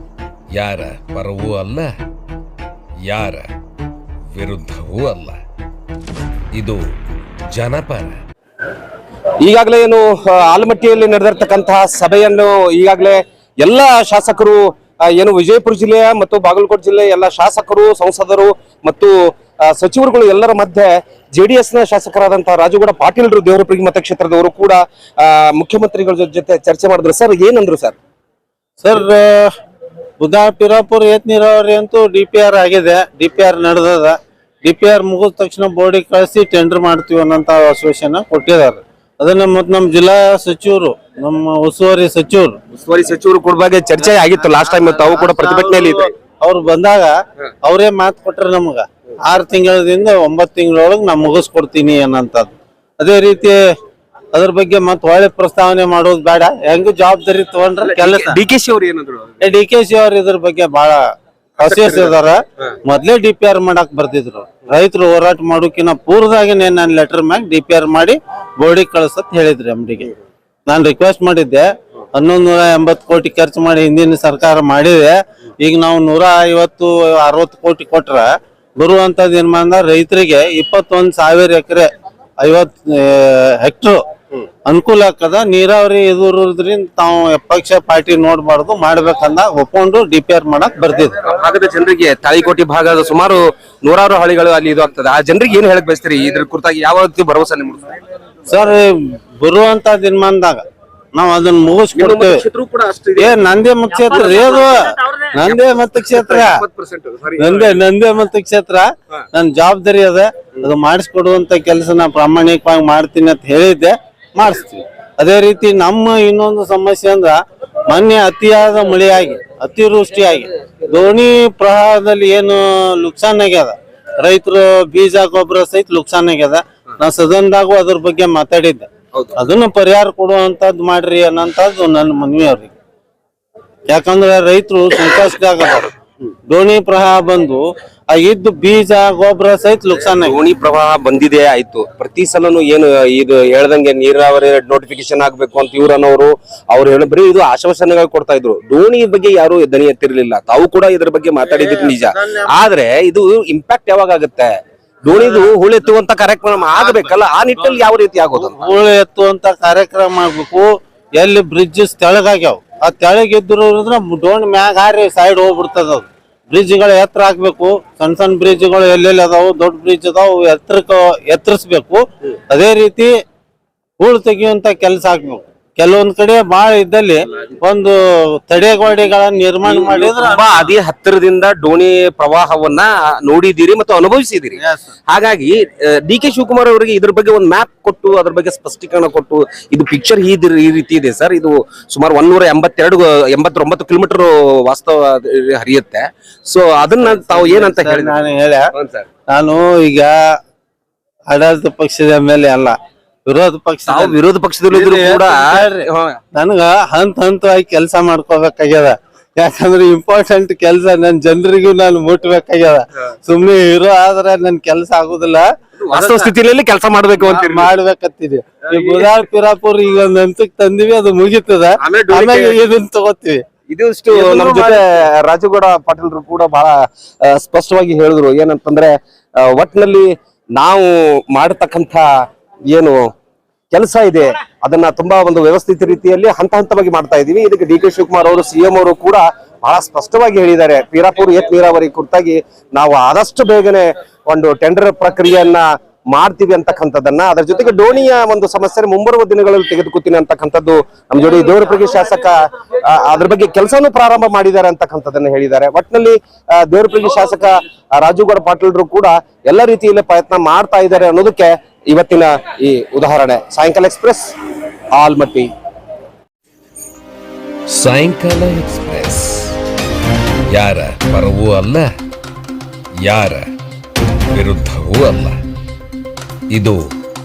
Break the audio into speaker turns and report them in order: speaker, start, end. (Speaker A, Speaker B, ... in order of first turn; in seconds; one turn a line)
Speaker A: 0.5-1.9
Speaker A: 3.0-3.5
Speaker A: 4.3-5.4
Speaker A: 6.5-6.8
Speaker A: 7.5-8.2
Speaker B: 9.4-19.1
Speaker B: 19.7-27.9
Speaker C: 28.8-29.5
Speaker C: 30.2-42.6
Speaker B: 42.7-46.1
Speaker C: 45.0-53.6
Speaker C: 54.3-58.4
Speaker B: 57.8-59.5
Speaker C: 59.4-61.0
Speaker C: 61.6-70.1
Speaker B: 61.6-62.1
Speaker C: 70.7-78.3
Speaker C: 78.8-84.0
Speaker C: 84.7-91.2
Speaker B: 91.2-97.9
Speaker C: 98.5-100.6
Speaker C: 101.1-102.4
Speaker B: 102.0-103.4
Speaker C: 103.2-106.6
Speaker B: 104.1-107.8
Speaker C: 107.4-117.4
Speaker C: 117.9-132.7
Speaker C: 133.9-135.9
Speaker C: 136.5-140.4
Speaker B: 140.2-154.5
Speaker C: 151.4-152.5
Speaker B: 155.0-158.8
Speaker C: 155.1-155.4
Speaker C: 156.8-157.1
Speaker C: 158.3-173.1
Speaker C: 174.0-180.7
Speaker B: 179.6-198.2
Speaker C: 184.6-184.9
Speaker C: 197.0-198.6
Speaker B: 198.7-199.1
Speaker C: 199.3-200.2
Speaker C: 201.3-202.7
Speaker C: 203.2-204.2
Speaker B: 203.9-206.2
Speaker C: 204.7-216.3
Speaker B: 215.8-217.7
Speaker C: 217.2-223.4
Speaker B: 218.7-219.1
Speaker B: 221.8-222.6
Speaker B: 223.7-232.1
Speaker C: 224.1-224.8
Speaker B: 232.7-233.1
Speaker B: 233.7-264.3
Speaker B: 264.9-265.5
Speaker A: 267.7-269.6
Speaker A: 270.5-271.9
Speaker A: 273.0-273.4
Speaker A: 274.3-275.4
Speaker A: 276.5-276.8